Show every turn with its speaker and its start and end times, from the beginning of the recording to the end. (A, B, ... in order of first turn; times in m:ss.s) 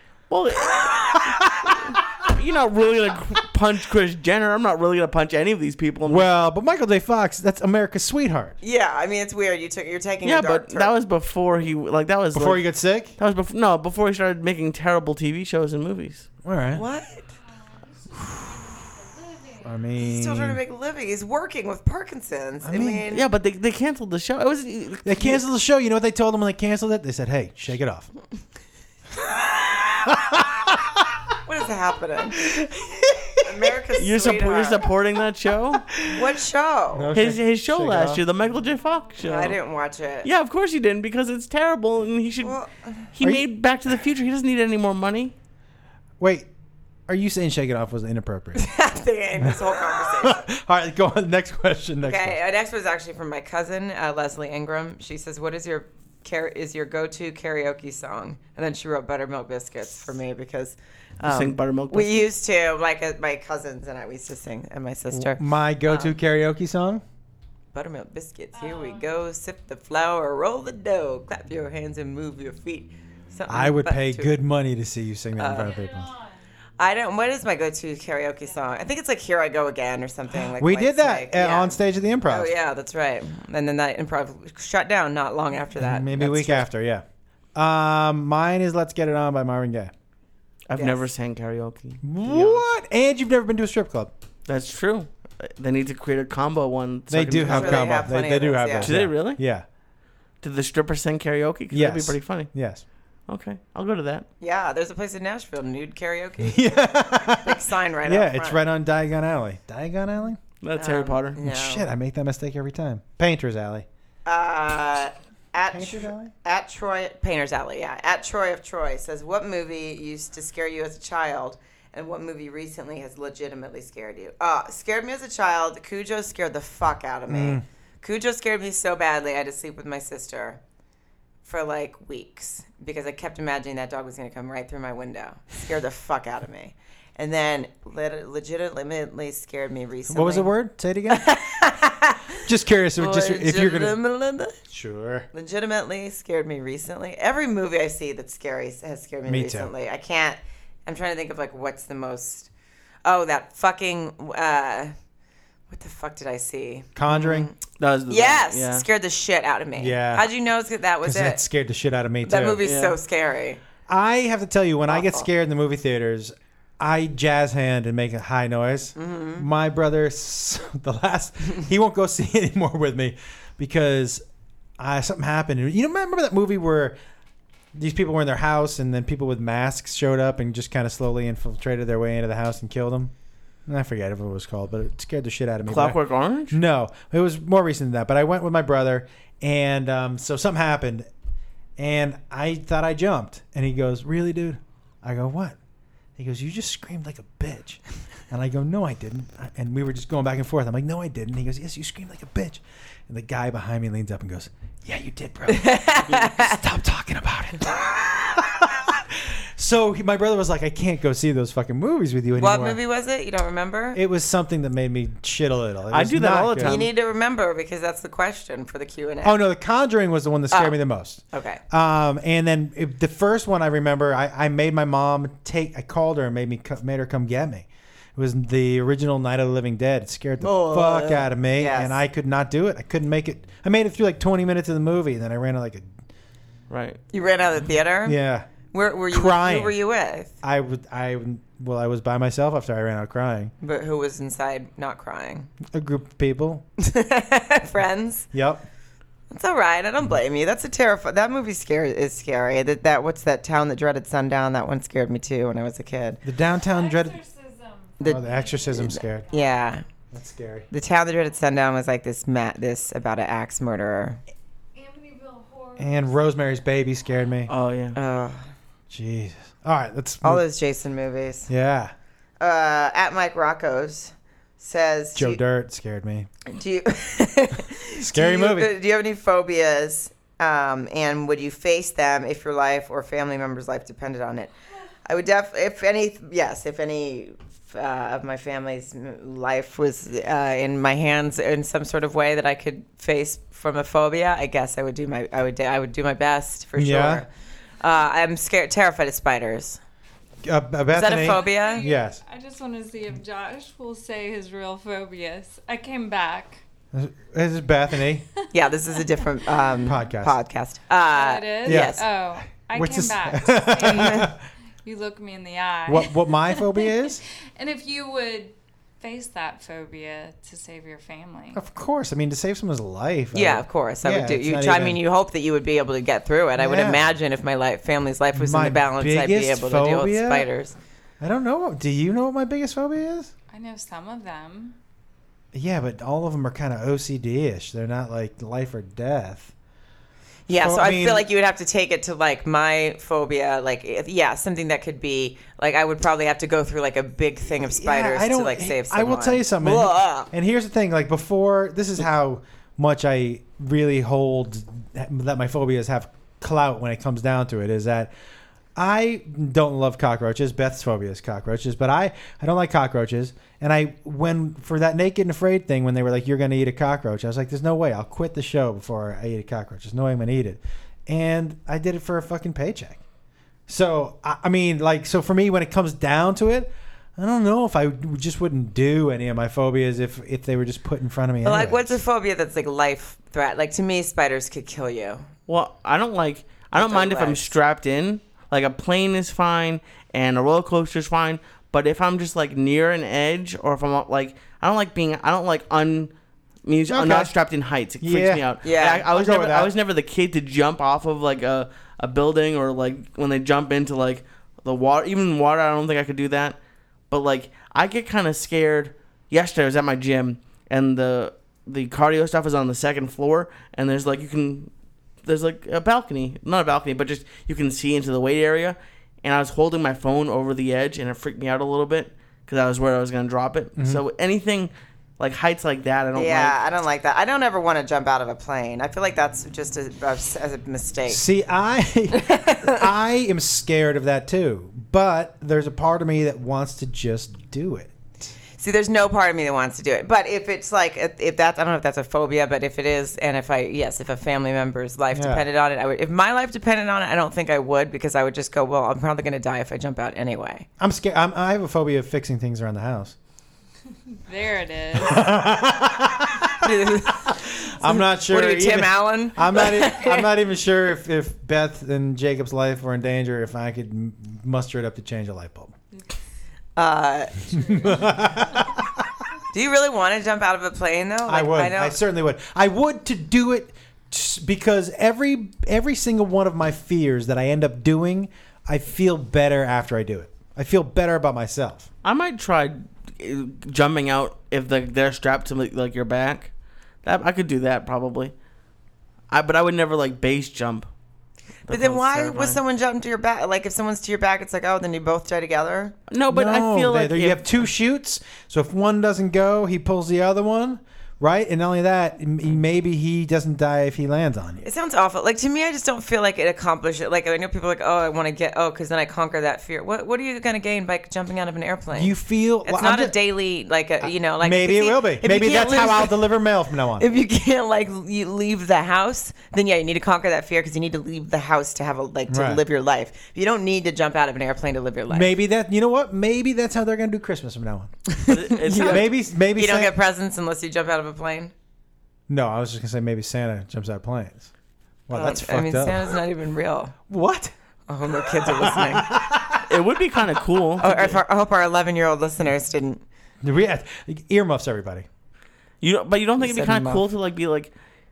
0:00.3-0:06.3 A
0:01.2-0:01.7 B
0:06.0-0:08.6 B
0:08.6-0:10.9 C
0:10.2-0:16.3 A
0:12.3-0:13.2 B
0:16.4-0:16.8 B
0:16.7-0:17.3 C
0:17.4-0:19.9 D
0:19.6-0:20.6 B
0:20.0-0:23.2 C
0:22.6-0:23.1 B
0:23.1-0:25.4 A
0:25.0-0:28.1 B
0:30.0-0:31.0 B
0:31.4-0:32.4 C
0:33.4-0:34.8 C
0:34.0-0:36.0 A
0:36.0-0:37.1 C
0:37.0-0:38.2 B
0:37.1-0:39.6 A
0:39.2-0:40.3 C
0:40.2-0:42.6 A
0:42.4-0:43.1 C
0:43.1-0:45.3 A
0:46.2-0:46.5 B
0:47.1-0:48.6 B
0:48.6-0:50.4 C
0:49.4-0:52.4 B
0:52.0-1:06.2 C
1:01.2-1:02.3 A
1:05.1-1:07.0 B
1:07.7-1:14.3 C
1:08.5-1:09.1 D
1:13.5-1:16.1 B
1:15.4-1:15.8 C
1:15.5-1:16.5 D
1:16.8-1:21.8 C
1:20.3-1:22.5 B
1:22.3-1:26.7 C
1:25.8-1:29.9 B
1:30.7-1:32.6 A
1:30.8-1:31.0 C
1:32.0-1:34.1 B
1:34.5-1:38.0 A
1:37.1-1:39.6 B
1:37.5-1:38.9 C
1:38.8-1:39.4 A
1:40.4-1:42.5 A
1:41.7-1:42.8 B
1:43.3-1:44.3 A
1:44.4-1:48.6 C
1:46.4-1:50.4 B
1:50.6-1:51.4 A
1:50.8-1:51.9 C
1:51.4-1:53.9 B
1:54.3-2:10.6 C
1:55.7-1:56.3 B
2:07.3-2:07.6 B
2:11.4-2:20.5 C
2:20.1-2:21.3 B
2:21.1-2:22.4 C
2:22.4-2:24.0 B
2:23.0-2:24.6 C
2:24.7-2:25.3 B
2:25.3-2:32.5 C
2:29.3-2:29.7 B
2:33.0-2:35.0 C
2:35.7-2:37.6 C
2:37.0-2:37.5 B
2:37.8-2:38.8 A
2:38.1-2:41.4 C
2:39.8-2:40.3 B
2:41.0-2:42.6 B
2:42.2-2:43.6 C
2:42.6-2:43.0 A
2:43.9-2:54.2 B
2:44.9-2:45.3 C
2:49.0-2:49.5 C
2:54.8-2:57.0 B
2:57.7-3:03.1 B
3:03.7-3:11.1 B
3:05.7-3:06.6 A
3:11.8-3:15.6 B
3:16.2-3:32.8 B
3:25.5-3:26.6 C
3:32.4-3:34.0 C
3:34.0-3:36.8 B
3:35.9-3:36.9 A
3:36.6-3:39.4 C
3:39.2-3:55.9 B
3:41.3-3:41.6 C
3:50.4-3:52.0 C
3:56.7-3:57.0 A
3:57.1-3:58.2 C
3:58.1-3:58.5 B
3:58.7-4:00.3 C
3:59.1-3:59.8 B
4:00.4-4:03.5 B
4:03.6-4:05.5 C
4:05.7-4:06.6 B
4:06.8-4:08.3 C
4:08.3-4:08.6 B
4:09.3-4:16.2 C
4:16.2-4:17.2 B
4:16.6-4:19.6 D
4:18.0-4:19.8 C
4:18.0-4:19.3 B
4:20.1-4:20.7 B
4:20.7-4:24.2 C
4:24.8-4:26.2 D
4:25.8-4:27.5 B
4:27.5-4:28.0 A
4:28.0-4:28.5 C
4:28.9-4:30.4 B
4:30.2-4:31.5 C
4:31.5-4:31.9 B
4:32.4-4:35.4 C
4:35.2-4:36.3 B
4:36.5-4:44.5 C
4:38.0-4:38.7 B
4:45.1-4:57.3 C
4:56.8-4:57.2 B
4:57.8-4:59.8 C
5:00.4-5:02.2 B
5:00.9-5:01.8 C
5:01.2-5:06.6 D
5:06.9-5:08.3 B
5:08.5-5:12.0 C
5:09.8-5:10.4 B
5:11.1-5:21.6 D
5:11.6-5:12.0 B
5:12.7-5:14.4 B
5:13.9-5:14.3 C
5:15.9-5:17.2 B
5:21.6-5:25.0 B
5:23.3-5:30.8 C
5:26.6-5:27.1 B
5:28.3-5:30.5 B
5:31.2-5:33.3 B
5:33.5-5:34.8 D
5:35.5-5:39.5 B
5:40.5-5:50.3 C
5:40.5-5:41.3 B
5:47.6-5:58.1 B
5:58.8-6:13.0 B
6:13.7-6:22.0 B
6:21.4-6:25.3 C
6:25.5-6:36.1 A
6:26.8-6:27.5 C
6:36.6-6:46.6 A
6:36.9-6:37.3 B
6:38.0-6:39.7 B
6:38.6-6:39.0 C
6:47.1-6:54.7 A
6:55.2-7:06.6 A
7:03.8-7:04.0 B
7:06.2-7:11.2 C
7:11.1-7:18.3 B
7:12.1-7:12.9 C
7:18.6-7:30.7 C
7:25.1-7:25.4 B
7:30.8-7:33.2 B
7:34.2-7:35.3 D
7:35.0-7:36.7 B
7:36.6-7:40.3 C
7:37.2-7:45.8 B
7:46.8-7:47.6 C
7:47.5-7:48.7 D
7:47.7-7:49.1 B
7:49.5-7:52.0 C
7:51.3-8:01.9 B
8:02.0-8:06.5 A
8:07.0-8:08.3 A
8:09.3-8:10.9 A
8:11.7-8:12.6 A
8:11.7-8:16.0 C
8:16.1-8:17.5 A
8:16.3-8:24.7 B
8:24.6-8:36.2 C
8:31.9-8:33.2 B
8:34.4-8:37.1 B
8:37.0-8:45.3 C
8:42.3-8:42.6 B
8:45.1-8:48.0 B
8:48.1-8:51.5 C
8:48.3-8:49.1 A
8:48.8-8:49.9 B
8:52.3-8:54.5 B
8:55.1-8:56.2 B
8:55.1-8:57.0 C
8:57.1-8:57.5 B
8:57.9-8:59.2 C
8:58.3-8:59.7 B
8:59.6-9:01.2 A
9:00.8-9:03.0 C
9:03.4-9:05.1 B
9:05.8-9:07.7 A
9:06.4-9:07.0 C